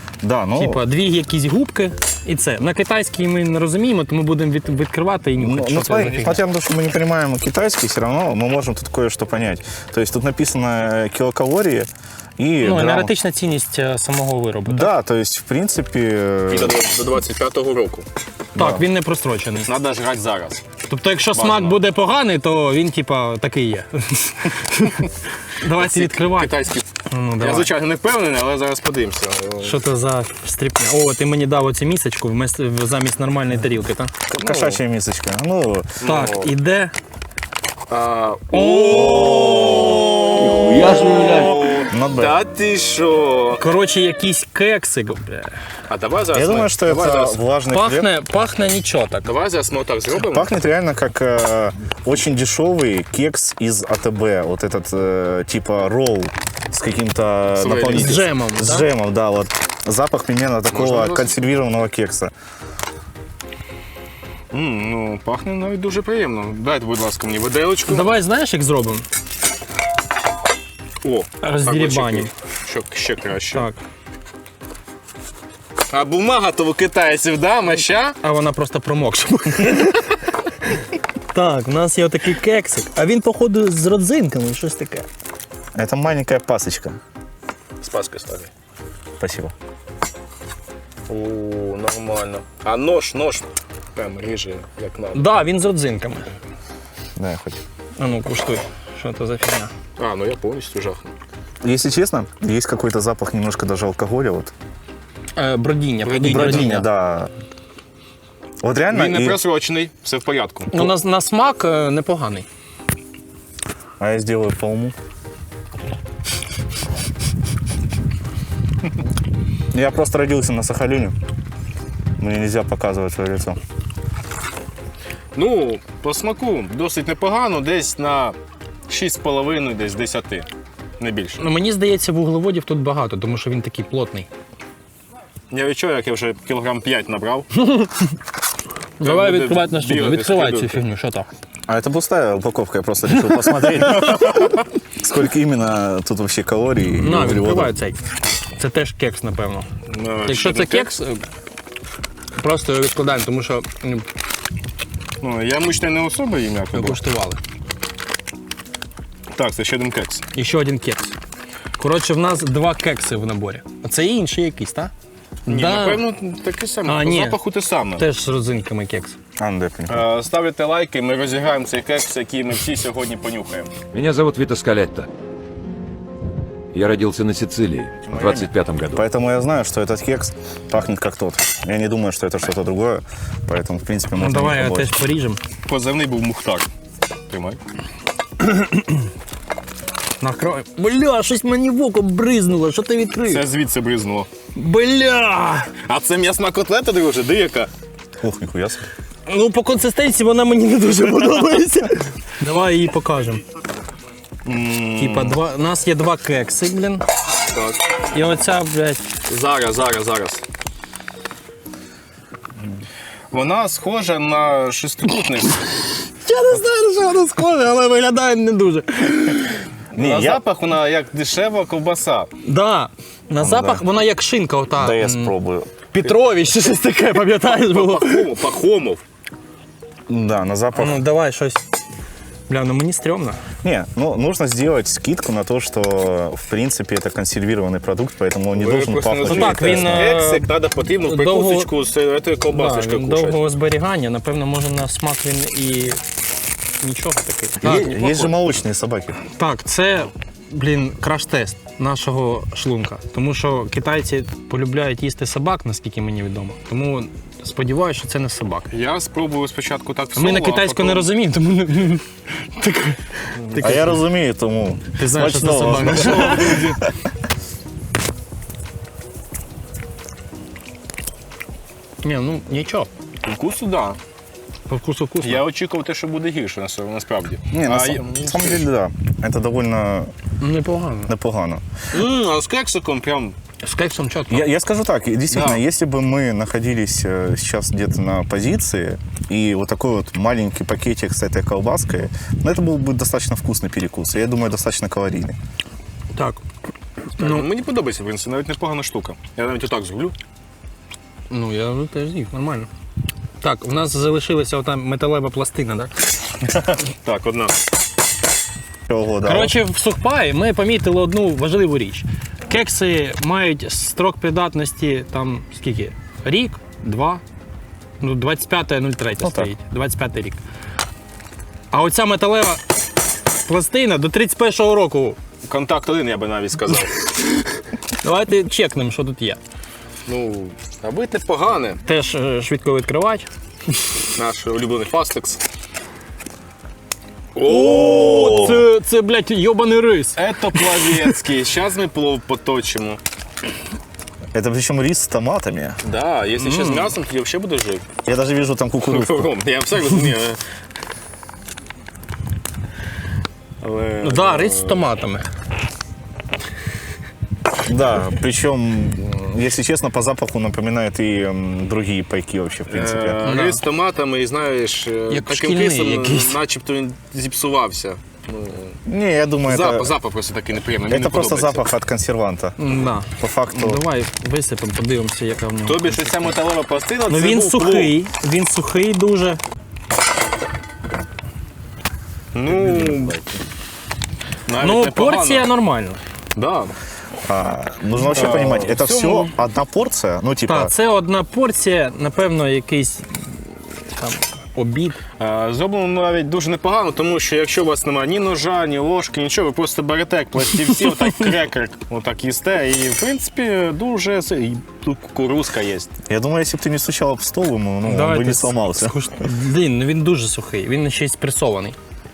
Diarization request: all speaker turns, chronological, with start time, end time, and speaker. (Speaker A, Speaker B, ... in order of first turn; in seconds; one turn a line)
Speaker A: 0.2-0.8
Speaker B: 0.6-6.4
Speaker A: 5.4-13.1
Speaker B: 12.6-14.9
Speaker A: 14.7-16.7
Speaker C: 16.5-18.1
Speaker A: 18.5-18.8
Speaker B: 18.5-19.7
Speaker C: 19.6-20.6
Speaker B: 20.9-25.0
Speaker C: 21.3-21.8
Speaker B: 25.6-26.6
Speaker C: 25.7-26.9
Speaker B: 27.1-27.7
Speaker C: 27.4-29.8
Speaker B: 29.6-34.1
Speaker A: 34.3-36.0
Speaker C: 34.4-34.8
Speaker C: 36.0-36.5
Speaker B: 36.0-36.9
Speaker C: 37.9-43.6
Speaker B: 38.5-39.9
Speaker D: 40.4-41.5
Speaker A: 41.9-42.4
Speaker B: 43.6-45.5
Speaker C: 45.9-47.4
Speaker A: 46.3-48.1
Speaker B: 47.7-49.3
Speaker C: 49.2-50.6
Speaker A: 50.2-62.3
Speaker C: 57.6-58.2
Speaker B: 57.9-58.9
Speaker C: 60.7-61.3
Speaker C: 64.5-68.2
Speaker B: 67.9-69.0
Speaker C: 71.0-73.7
Speaker B: 71.4-72.3
Speaker B: 73.5-73.8
Speaker C: 75.9-78.2
Speaker B: 78.2-80.1
Speaker B: 81.3-85.1
Speaker A: 85.7-87.0
Speaker C: 87.8-88.5
Speaker A: 89.2-89.5
Speaker C: 91.1-95.3
Speaker B: 95.1-96.3
Speaker A: 97.2-97.6
Speaker B: 98.0-99.7
Speaker C: 100.0-101.1
Speaker A: 101.6-104.5
Speaker B: 105.3-106.9
Speaker C: 106.0-106.8
Speaker A: 106.2-107.3
Speaker A: 108.6-109.4
Speaker C: 108.9-110.7
Speaker B: 110.7-112.5
Speaker A: 114.0-114.9
Speaker A: 119.7-121.1
Speaker A: 122.2-123.6
Speaker C: 125.3-128.3
Speaker C: 128.9-130.5
Speaker C: 131.0-131.4
Speaker B: 131.4-134.3
Speaker C: 135.5-137.5
Speaker B: 137.6-138.1
Speaker C: 139.0-140.8
Speaker B: 139.0-141.3
Speaker A: 141.7-147.7
Speaker B: 143.3-144.0
Speaker B: 146.9-148.0
Speaker B: 148.6-149.7
Speaker C: 149.9-150.9
Speaker B: 150.2-151.2
Speaker B: 152.3-154.1
Speaker C: 155.2-157.0
Speaker B: 156.7-157.4
Speaker C: 159.3-160.2
Speaker B: 160.3-161.1
Speaker B: 161.8-164.9
Speaker B: 165.4-166.0
Speaker C: 165.5-168.1
Speaker B: 166.8-167.4
Speaker B: 167.9-169.2
Speaker A: 169.4-170.1
Speaker C: 169.9-173.7
Speaker D: 173.9-175.1
Speaker D: 176.7-179.0
Speaker A: 178.1-185.0
Speaker B: 184.2-185.4
Speaker C: 185.7-186.7
Speaker C: 187.3-187.6
Speaker B: 190.2-193.4
Speaker C: 193.3-194.3
Speaker B: 194.5-195.7
Speaker C: 195.8-197.7
Speaker A: 198.2-198.8
Speaker B: 199.3-203.4
Speaker C: 204.4-205.4
Speaker B: 205.0-207.0
Speaker C: 207.5-207.8
Speaker B: 208.1-209.1
Speaker C: 209.3-210.4
Speaker C: 213.3-215.6
Speaker B: 216.2-219.6
Speaker A: 219.9-220.4
Speaker C: 219.9-222.3
Speaker B: 222.4-225.3
Speaker A: 223.4-223.8
Speaker A: 224.8-225.7
Speaker B: 225.9-228.3
Speaker C: 227.4-229.0
Speaker A: 230.1-231.0
Speaker B: 230.7-231.6
Speaker B: 232.5-233.4
Speaker A: 233.6-240.1
Speaker C: 238.5-243.4
Speaker B: 239.2-240.4
Speaker B: 241.0-241.7
Speaker B: 242.5-246.0
Speaker B: 246.8-247.9
Speaker C: 247.6-248.4
Speaker A: 247.6-249.2
Speaker B: 249.3-258.7
Speaker C: 258.7-261.1
Speaker B: 260.1-264.0
Speaker A: 263.6-266.8
Speaker B: 264.9-266.8
Speaker C: 265.9-266.6
Speaker B: 272.0-272.9
Speaker C: 273.2-274.0
Speaker B: 274.7-275.4
Speaker C: 275.2-278.6
Speaker A: 277.5-280.1
Speaker B: 280.4-281.1
Speaker A: 281.1-281.6
Speaker C: 281.9-283.4
Speaker B: 283.6-284.5
Speaker A: 284.3-295.4
Speaker C: 285.3-285.6
Speaker B: 296.1-296.4
Speaker B: 297.2-297.4
Speaker C: 297.2-300.1
Speaker B: 301.3-302.7
Speaker B: 303.4-305.9
Speaker C: 306.6-307.6
Speaker A: 308.9-309.6
Speaker B: 309.2-317.2
Speaker B: 318.0-320.4
Speaker A: 319.2-319.5
Speaker B: 321.7-322.6
Speaker B: 323.4-325.2
Speaker C: 325.4-326.9
Speaker B: 328.0-329.4
Speaker C: 330.1-331.8
Speaker B: 331.8-333.3
Speaker C: 334.1-335.4
Speaker C: 337.3-338.6
Speaker B: 337.5-341.1
Speaker A: 337.5-338.6
Speaker C: 340.1-343.0
Speaker A: 344.3-345.8
Speaker C: 345.8-347.9
Speaker B: 346.4-346.9
Speaker A: 348.0-349.3
Speaker C: 348.8-350.4
Speaker C: 353.6-354.9
Speaker B: 354.0-355.3
Speaker A: 357.6-363.2
Speaker C: 362.7-368.8
Speaker B: 363.2-363.6
Speaker B: 365.1-366.4
Speaker A: 368.9-369.9
Speaker C: 369.4-371.7
Speaker A: 370.9-372.6
Speaker B: 372.6-376.3
Speaker A: 373.2-373.8
Speaker C: 375.6-377.9
Speaker B: 377.1-379.4
Speaker C: 382.3-383.2
Speaker C: 384.5-385.5
Speaker B: 384.6-386.0
Speaker C: 386.3-386.7
Speaker A: 387.3-390.7
Speaker C: 388.1-389.3
Speaker B: 390.4-395.0
Speaker C: 395.2-405.9
Speaker A: 406.1-409.1
Speaker B: 407.8-411.8